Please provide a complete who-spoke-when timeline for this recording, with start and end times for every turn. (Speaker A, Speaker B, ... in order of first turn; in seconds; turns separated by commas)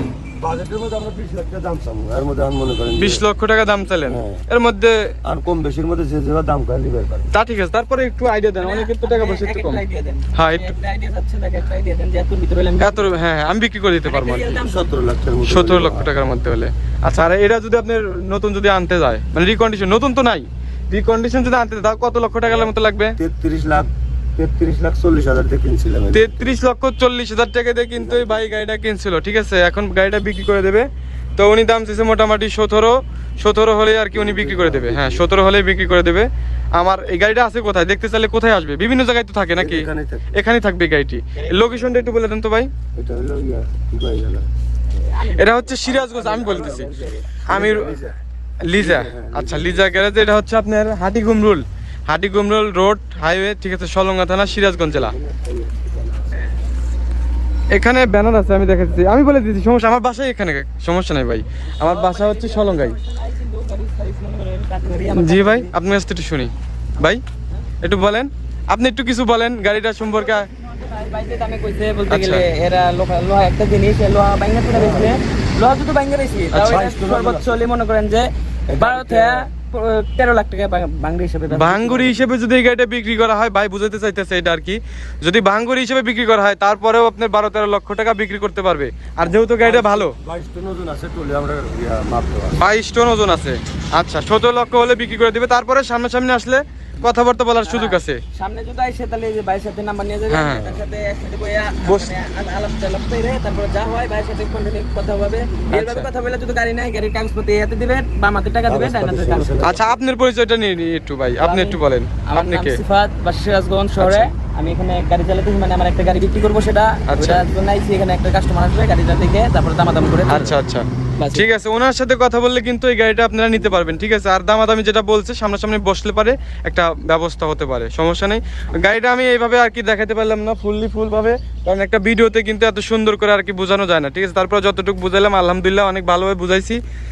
Speaker A: 0.4-3.2, Speaker B: 3.0-5.2, Speaker A: 4.1-4.4, Speaker A: 5.2-7.3, Speaker B: 7.3-9.8, Speaker C: 8.6-13.1, Speaker B: 10.3-10.8, Speaker B: 12.8-14.6, Speaker C: 14.1-14.8, Speaker A: 14.6-16.1, Speaker B: 15.5-23.2, Speaker A: 22.4-26.6, Speaker B: 26.1-42.7, Speaker A: 28.0-28.5, Speaker A: 34.1-35.3, Speaker A: 39.6-40.4, Speaker C: 41.4-41.8, Speaker A: 43.0-44.5, Speaker C: 44.9-47.0, Speaker B: 45.4-46.9, Speaker A: 46.1-48.2, Speaker B: 47.5-48.0, Speaker B: 48.6-55.1, Speaker A: 48.7-49.9, Speaker A: 54.9-56.3, Speaker B: 57.7-63.0, Speaker C: 61.8-65.7, Speaker B: 65.2-67.2, Speaker B: 67.8-70.5, Speaker C: 70.0-78.3, Speaker B: 72.1-72.5, Speaker A: 74.8-75.2, Speaker A: 76.5-77.6, Speaker A: 78.7-79.4, Speaker C: 78.8-82.2, Speaker B: 81.5-90.2, Speaker A: 89.6-92.6, Speaker B: 92.6-98.2, Speaker C: 97.6-109.7, Speaker B: 100.3-100.6, Speaker A: 100.5-100.8, Speaker B: 101.8-102.1, Speaker B: 105.7-106.1, Speaker A: 108.7-109.8, Speaker B: 109.6-112.8, Speaker C: 111.4-120.6, Speaker B: 114.0-114.3, Speaker B: 117.1-117.5, Speaker B: 120.3-136.8, Speaker C: 121.2-121.5